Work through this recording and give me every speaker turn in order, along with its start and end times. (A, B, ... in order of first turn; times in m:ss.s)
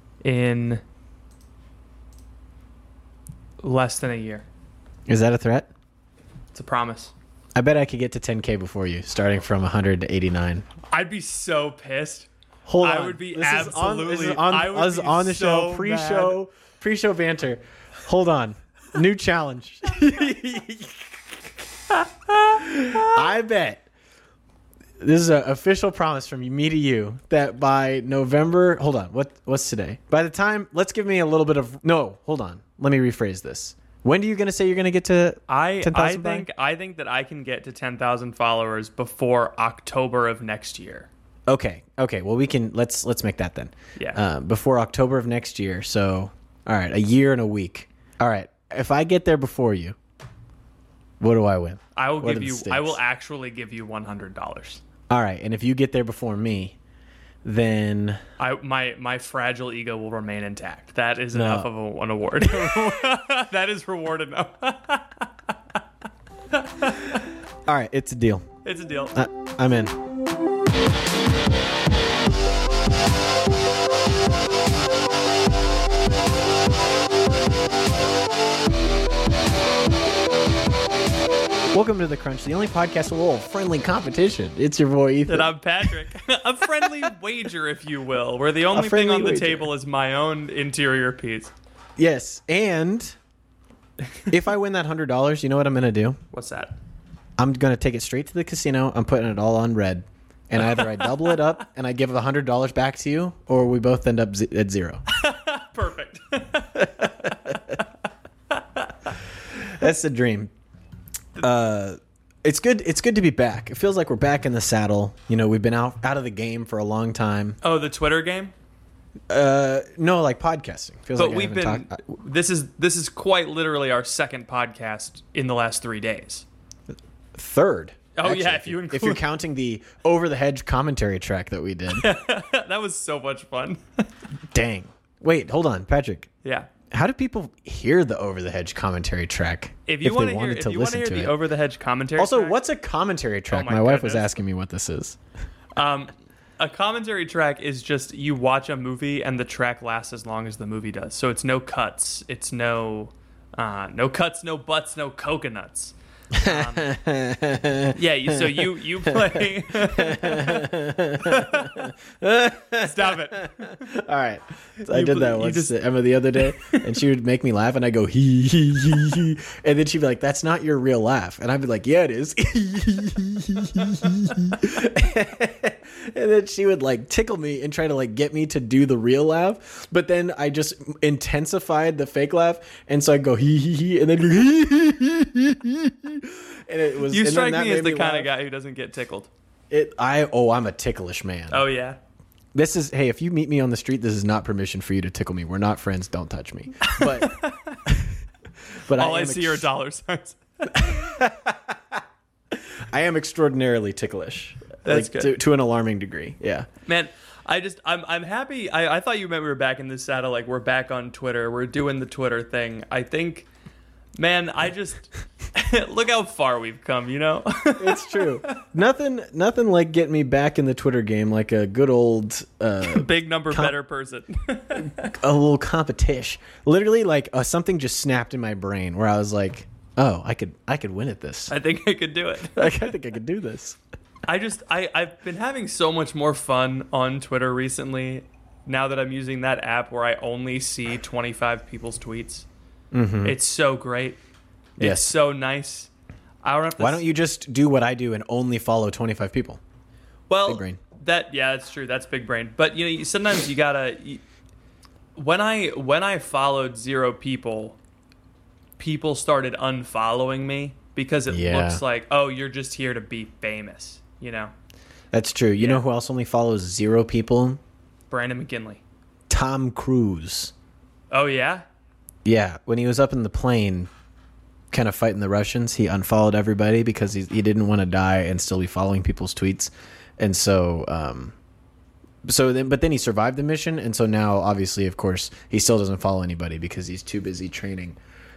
0:00.2-0:00.8 A
0:03.6-0:04.4 A
0:05.1-0:05.7 B
0:06.5-0:07.1 A
0:07.6-0:10.6 B
0:10.9-0:12.3 A
0:12.7-0:21.2 B
0:12.8-0:16.4 A
0:22.3-0:23.0 A
0:22.6-0:23.9 B
0:25.0-0:36.5 B
0:35.5-0:41.1 A
0:41.5-0:50.0 B
0:44.0-0:44.2 A
0:51.2-0:53.0 B
0:52.0-0:54.8 A
0:55.1-0:56.8 B
0:57.4-0:58.2 B
0:58.4-1:05.5 A
1:01.3-1:01.7 B
1:06.5-1:07.2 A
1:07.7-1:08.5 B
1:08.6-1:09.2 A
1:09.1-1:10.0 B
1:21.7-1:25.5 B
1:25.3-1:31.5 A
1:28.7-1:29.7 B
1:32.0-1:33.2 B
1:34.3-1:36.2 B
1:36.3-1:36.7 A
1:37.4-1:45.0 B
1:40.6-1:41.3 A
1:45.1-1:47.6 A
1:46.8-1:47.8 B
1:48.5-1:48.9 A
1:49.5-1:50.5 B
1:51.4-1:57.6 B
1:57.6-1:58.5 A
1:59.3-2:02.0 B
2:01.2-2:06.4 A
2:07.4-2:12.1 B
2:08.2-2:09.2 A
2:11.9-2:14.1 A
2:14.5-2:16.3 B
2:16.4-2:16.7 A
2:16.9-2:21.4 B
2:19.9-2:22.6 A
2:22.2-2:25.2 B
2:23.5-2:24.4 A
2:25.8-2:36.9 A
2:36.3-3:08.3 B
2:37.9-2:40.7 A
2:41.2-2:41.9 A
2:42.8-2:43.8 A
2:44.9-2:45.8 A
2:46.4-2:46.8 A
3:07.1-3:09.3 A
3:09.7-3:11.6 B
3:11.5-3:12.0 A
3:12.5-3:18.2 B
3:16.8-3:17.8 A
3:18.9-3:19.7 B
3:19.0-3:21.1 A
3:20.7-3:26.7 B
3:24.8-3:25.4 A
3:26.9-3:33.5 A
3:34.2-3:38.6 A
3:37.8-3:43.8 B
3:42.8-3:45.1 A
3:44.7-3:51.5 B
3:51.5-3:52.7 A
3:52.5-3:53.8 B
3:54.3-4:02.5 A
4:02.9-4:03.4 B
4:03.2-4:04.2 A
4:04.8-4:05.9 A
4:04.8-4:05.2 B
4:06.4-4:07.1 A
4:06.8-4:09.6 B
4:10.3-4:14.2 A
4:10.5-4:10.8 B
4:15.2-4:17.8 A
4:18.8-4:24.5 A
4:21.3-4:21.8 B
4:25.1-4:27.6 B
4:25.6-4:25.8 A
4:28.1-4:28.8 A
4:29.3-4:30.5 B
4:31.1-4:31.6 A
4:32.2-4:33.9 B
4:34.7-4:41.4 B
4:42.2-4:48.0 B